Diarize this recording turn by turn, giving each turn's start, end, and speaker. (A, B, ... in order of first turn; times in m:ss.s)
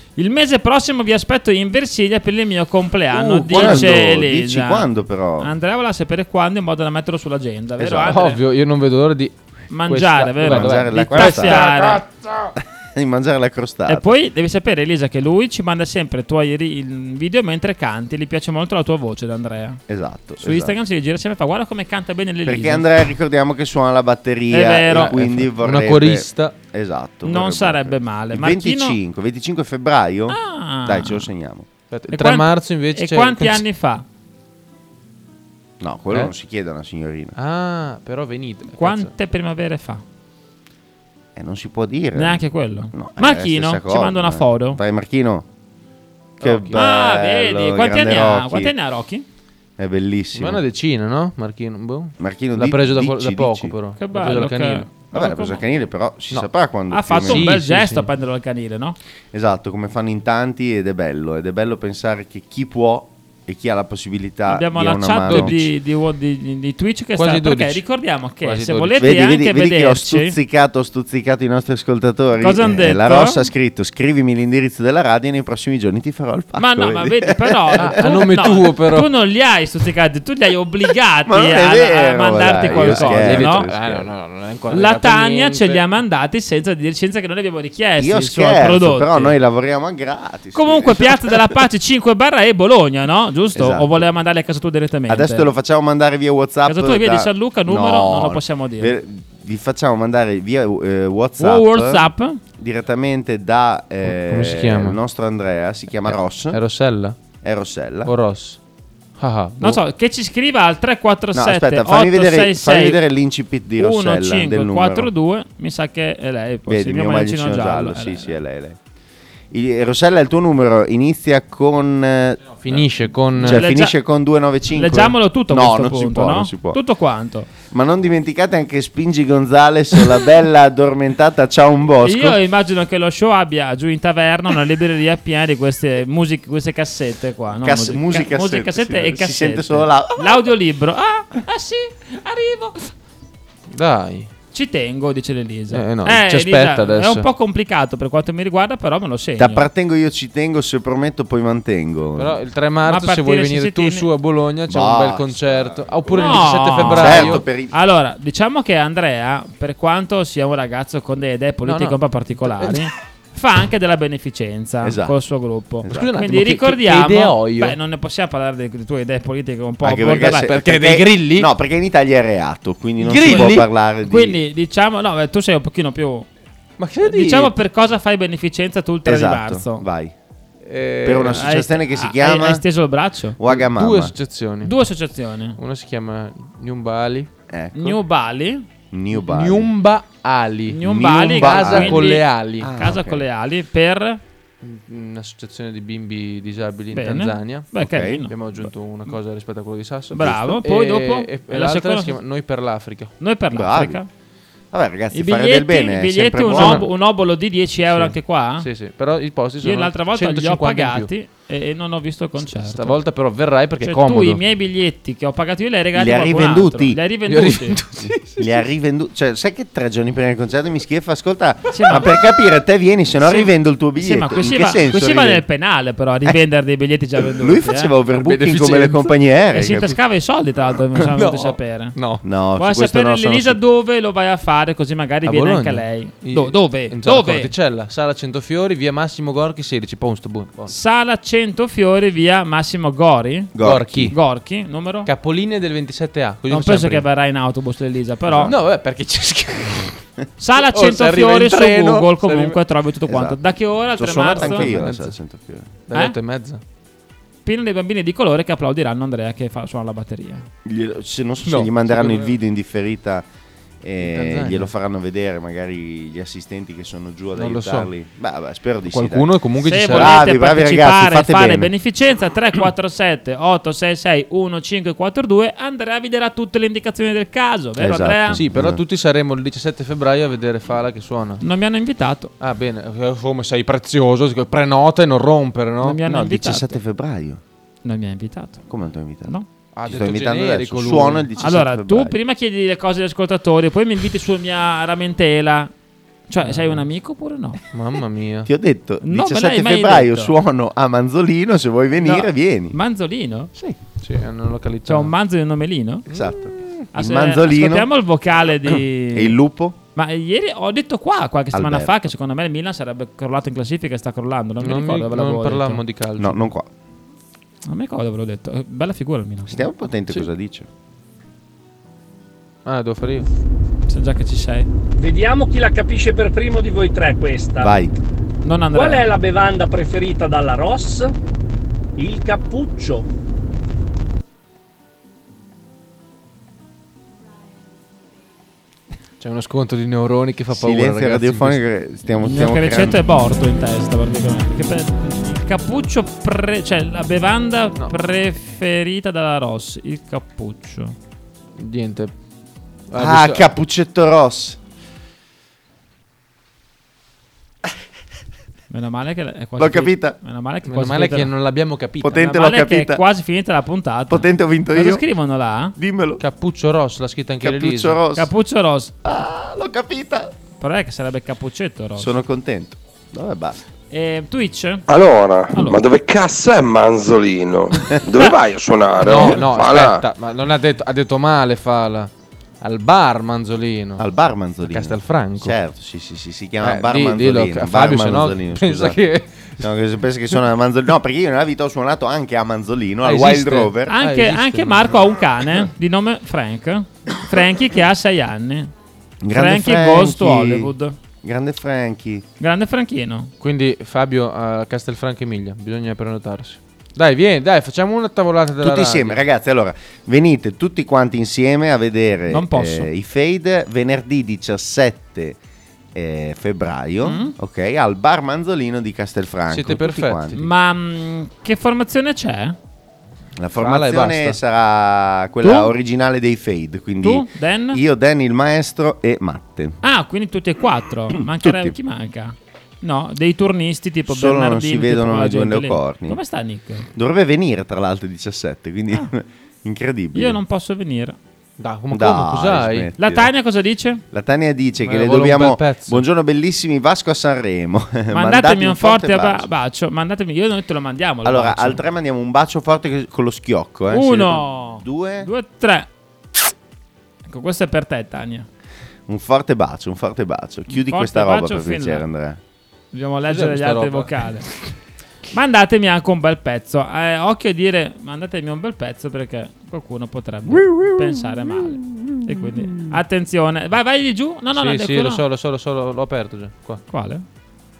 0:00.2-0:04.9 A
0:03.1-0:05.5 B
0:03.5-0:03.9 C
0:05.4-0:08.4 A
0:07.8-0:08.2 B
0:08.1-0:12.5 C
0:09.7-0:12.0 A
0:10.4-0:11.7 B
0:12.6-0:14.1 B
0:13.9-0:19.8 A
0:19.9-0:20.8 B
0:20.4-0:22.8 A
0:22.4-0:31.7 B
0:24.5-0:25.2 A
0:24.9-0:26.5 C
0:27.2-0:29.0 A
0:30.3-0:31.3 A
0:31.9-0:33.6 C
0:32.1-0:34.0 A
0:35.8-0:37.3 B
0:37.4-0:39.1 C
0:38.8-0:40.0 A
0:41.3-0:45.4 B
0:42.1-0:44.8 A
0:46.4-0:46.8 C
0:46.4-0:48.7 B
0:46.7-0:49.2 A
0:49.8-0:50.6 B
0:50.4-0:54.9 C
0:52.2-0:53.7 B
0:54.0-0:55.6 A
0:55.1-0:57.5 B
0:56.9-0:59.0 A
0:57.1-0:58.1 C
0:59.3-1:05.7 B
1:04.5-1:10.4 A
1:05.3-1:05.5 C
1:07.2-1:07.8 C
1:08.4-1:09.1 C
1:09.0-1:18.5 B
1:12.4-1:13.5 A
1:16.6-1:23.7 A
1:17.8-1:19.1 C
1:21.2-1:24.1 B
1:22.6-1:25.8 C
1:24.7-1:29.3 A
1:28.0-1:31.4 B
1:30.5-1:35.5 A
1:33.5-1:34.1 B
1:35.1-1:46.6 B
1:36.6-1:39.0 A
1:41.4-1:42.4 A
1:44.0-1:45.0 C
1:46.1-1:47.2 C
1:47.4-1:48.1 B
1:48.0-1:48.6 C
1:49.2-1:49.8 C
1:49.6-1:53.0 A
1:51.3-1:55.1 B
1:53.8-1:58.4 A
1:56.7-1:58.8 B
1:59.5-2:06.8 B
2:02.6-2:03.7 C
2:03.4-2:04.0 A
2:04.7-2:07.5 A
2:07.7-2:12.4 B
2:12.0-2:22.9 A
2:17.6-2:20.4 B
2:23.7-2:24.3 C
2:24.5-2:29.6 A
2:25.7-2:27.3 C
2:29.4-2:32.4 B
2:32.2-2:37.4 C
2:32.9-2:34.0 A
2:34.7-2:37.7 B
2:36.1-2:50.5 A
2:41.6-2:42.9 C
2:44.8-2:45.2 B
2:45.8-2:46.1 B
2:45.9-2:47.8 C
2:49.8-2:54.4 B
2:50.1-2:51.5 C
2:53.0-2:53.7 C
2:54.0-2:56.3 A
2:56.8-2:57.5 C
2:57.0-2:59.8 A
2:59.0-3:00.1 B
3:00.6-3:01.5 C
3:01.0-3:02.6 B
3:01.3-3:03.4 A
3:03.4-3:04.1 B
3:03.5-3:04.8 C
3:04.6-3:05.6 A
3:05.6-3:07.3 C
3:07.5-3:08.0 B
3:07.7-3:08.6 A
3:08.9-3:09.7 B
3:09.1-3:12.7 C
3:10.7-3:14.2 A
3:10.8-3:13.2 B
3:14.6-3:23.1 C
3:16.9-3:18.3 A
3:17.8-3:18.2 B
3:20.1-3:20.4 B
3:20.1-3:22.1 A
3:23.2-3:24.1 A
3:23.5-3:24.0 B
3:24.7-3:26.8 B
3:25.1-3:28.7 A
3:26.5-3:26.9 C
3:27.9-3:31.1 C
3:29.6-3:33.0 A
3:32.4-3:34.4 C
3:33.8-3:37.8 A
3:35.9-3:37.0 B
3:37.3-3:38.6 C
3:38.4-3:45.4 B
3:41.7-3:42.1 A
3:43.2-3:47.9 A
3:47.2-3:50.0 B
3:48.2-3:49.1 C
3:49.5-3:52.0 A
3:51.1-3:52.2 C
3:52.2-3:53.6 B
3:52.6-3:57.5 A
3:55.2-4:00.7 C
4:00.7-4:03.5 A
4:03.5-4:04.1 B
4:03.6-4:04.1 C
4:04.1-4:05.1 A
4:05.0-4:07.1 C
4:06.5-4:08.5 A
4:08.4-4:10.0 C
4:10.4-4:14.7 A
4:10.6-4:12.6 C
4:13.1-4:15.7 B
4:14.3-4:15.2 C
4:15.9-4:16.6 C
4:17.4-4:20.4 A
4:20.6-4:23.2 B
4:21.4-4:22.4 C
4:23.8-4:29.3 B
4:24.0-4:24.7 C
4:27.4-4:27.9 C
4:28.9-4:30.2 C
4:29.6-4:38.4 A
4:29.8-4:31.7 B
4:37.8-4:38.8 B
4:38.3-4:41.4 C
4:41.4-4:42.3 A
4:42.4-4:46.0 C
4:45.8-4:46.8 A
4:46.0-4:47.4 B
4:47.8-4:48.6 A
4:48.7-4:49.3 B
4:49.8-4:51.3 C
4:49.8-4:52.2 B
4:51.4-4:55.7 A
4:56.3-4:57.6 A
4:56.4-4:56.8 C
4:57.7-4:58.5 C
4:58.4-5:02.8 B
4:59.0-5:00.3 A
5:02.0-5:03.5 A
5:04.0-5:05.1 C
5:04.9-5:06.0 A
5:06.1-5:07.9 B
5:06.9-5:09.4 A
5:09.1-5:09.8 B
5:10.0-5:15.8 A
5:11.5-5:12.1 B
5:14.6-5:16.4 C
5:16.2-5:16.7 B
5:17.6-5:19.7 A
5:19.5-5:20.7 B
5:22.6-5:23.3 C
5:23.9-5:24.7 A
5:25.0-5:27.8 D
5:27.6-5:28.0 B
5:28.4-5:29.1 A
5:28.7-5:31.1 D
5:32.0-5:33.0 D
5:39.2-5:41.6 C
5:40.5-5:43.0 B
5:42.2-5:50.9 A
5:51.6-5:52.1 C
5:52.9-5:53.5 C
5:52.9-5:54.6 B
5:58.7-6:01.3 A
5:59.6-6:00.2 B
6:00.6-6:02.2 C
6:02.0-6:03.0 B
6:02.1-6:05.8 A
6:04.1-6:05.0 B
6:05.8-6:06.2 B
6:06.2-6:08.0 C
6:07.4-6:08.3 B
6:08.1-6:08.9 A
6:09.0-6:10.3 B
6:10.6-6:12.1 A
6:12.0-6:13.6 B
6:13.9-6:14.8 A
6:14.9-6:20.0 E
6:15.5-6:15.8 A
6:19.0-6:22.1 C
6:22.6-6:24.0 C
6:24.0-6:29.0 B
6:24.6-6:25.6 C
6:26.6-6:29.6 C
6:29.6-6:33.9 B
6:33.0-6:35.1 C
6:33.9-6:38.7 A
6:39.2-6:42.2 B
6:39.3-6:40.9 A
6:42.4-6:43.3 A
6:43.4-6:49.2 C
6:48.6-6:55.4 B
6:52.3-6:52.9 A
6:55.9-7:00.4 B
6:57.0-6:57.3 A
6:59.5-7:00.4 C
7:00.3-7:02.6 A
7:03.4-7:09.8 B
7:03.6-7:04.4 C
7:05.4-7:05.7 A
7:07.0-7:07.8 A
7:09.8-7:16.9 A
7:11.1-7:11.8 B
7:14.1-7:16.2 B
7:16.9-7:20.4 B
7:20.1-7:21.2 A
7:21.6-7:22.9 C
7:21.9-7:23.3 B
7:23.0-7:24.0 A
7:24.1-7:29.5 B
7:24.8-7:26.0 C
7:28.1-7:31.8 A
7:31.2-7:35.3 B
7:33.9-7:35.9 A
7:37.3-7:38.5 A
7:39.1-7:42.4 B
7:40.7-7:42.0 A
7:42.9-7:44.5 A
7:43.3-7:44.3 C
7:45.3-7:55.2 A
7:50.5-7:53.0 B
7:54.5-7:56.8 C
7:56.9-7:57.2 A